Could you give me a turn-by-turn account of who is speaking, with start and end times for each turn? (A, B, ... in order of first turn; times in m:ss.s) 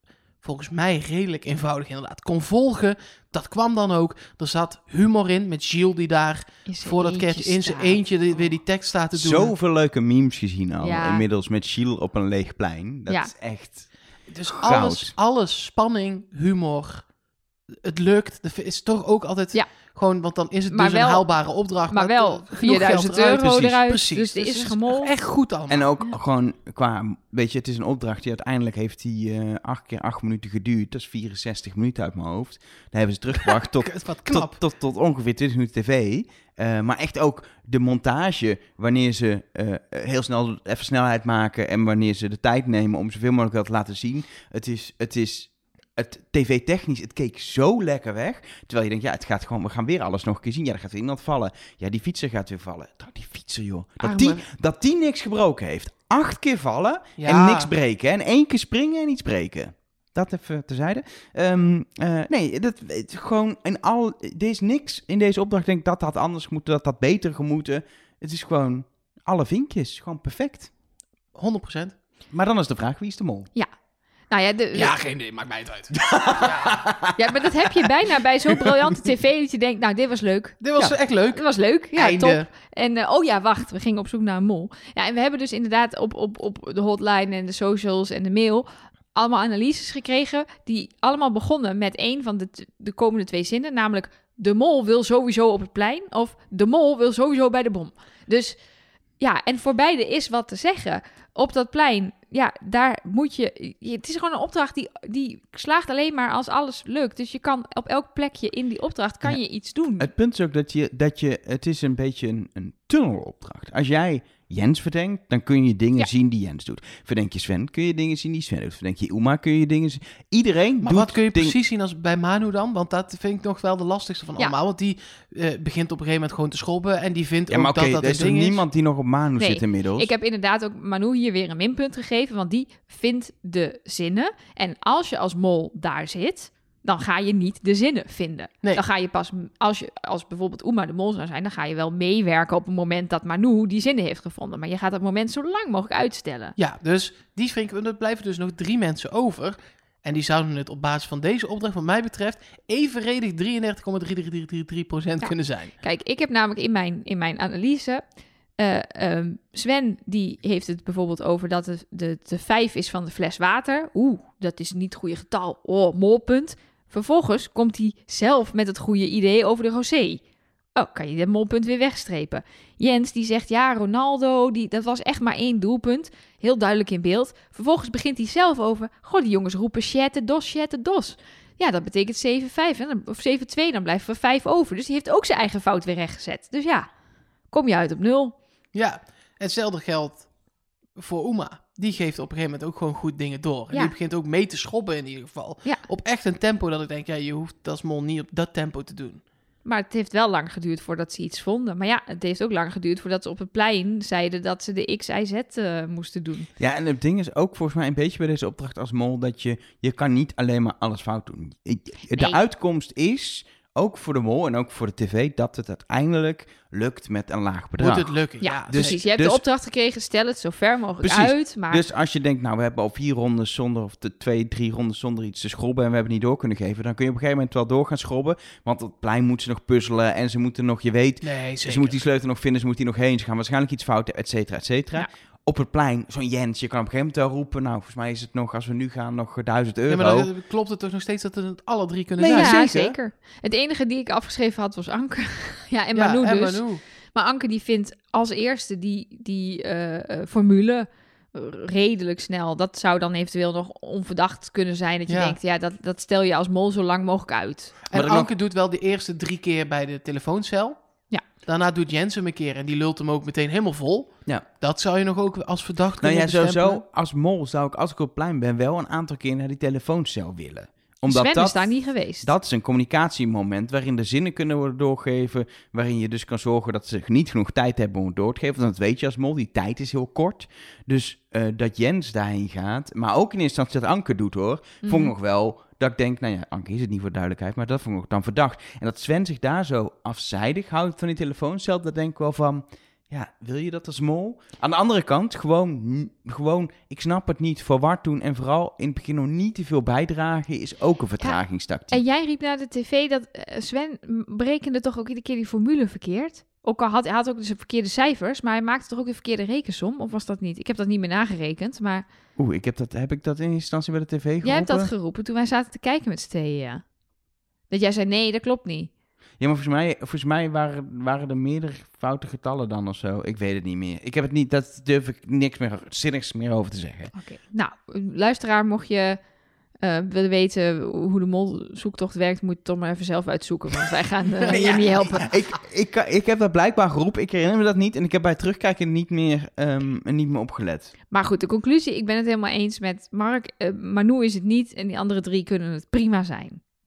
0:00.4-0:09.5 A
0:06.6-0:08.0 B
0:09.1-0:13.9 C
0:10.8-0:11.2 B
0:14.3-0:17.1 A
0:14.6-0:15.1 C
0:17.8-0:25.9 A
0:20.7-0:21.2 B
0:21.9-0:25.1 B
0:23.4-0:23.7 C
0:25.7-1:10.7 C
0:33.4-0:34.6 A
0:54.0-0:54.4 B
0:57.2-0:57.7 A
1:11.3-1:11.9 A
1:12.3-1:13.5 C
1:14.3-1:14.9 B
1:14.7-1:16.9 A
1:15.9-1:17.9 C
1:17.2-1:38.6 B
1:18.5-1:18.8 C
1:20.6-1:22.5 A
1:39.2-1:50.1 B
1:50.0-2:01.6 C
2:00.8-2:08.6 A
2:07.5-2:10.1 C
2:09.4-2:26.5 B
2:26.6-2:35.7 A
2:35.8-2:38.0 B
2:38.6-2:50.2 B
2:50.8-3:06.9 B
3:07.5-3:08.3 B
3:08.7-3:10.3 A
3:11.0-3:19.2 A
3:19.6-3:26.5 B
3:26.6-3:38.2 C
3:32.1-3:32.4 B
3:37.8-3:39.0 A
3:38.4-3:41.8 B
3:38.7-3:39.4 C
3:41.0-4:00.3 C
3:51.2-3:52.0 A
3:59.9-4:02.6 A
4:02.2-4:03.0 C
4:02.2-4:17.7 B
4:05.9-4:06.8 A
4:15.1-4:15.4 A
4:17.9-4:20.8 A
4:17.9-4:18.3 C
4:21.4-4:26.8 A
4:26.0-5:02.0 C
4:31.0-4:32.3 B
4:44.8-4:45.1 B
5:01.9-5:12.0 B
5:12.4-5:14.9 C
5:14.4-5:16.8 B
5:17.7-5:18.9 B
5:19.4-5:27.1 C
5:27.1-5:29.2 B
5:29.8-5:35.3 B
5:34.5-5:40.9 C
5:34.5-5:35.2 A
5:41.1-5:46.6 B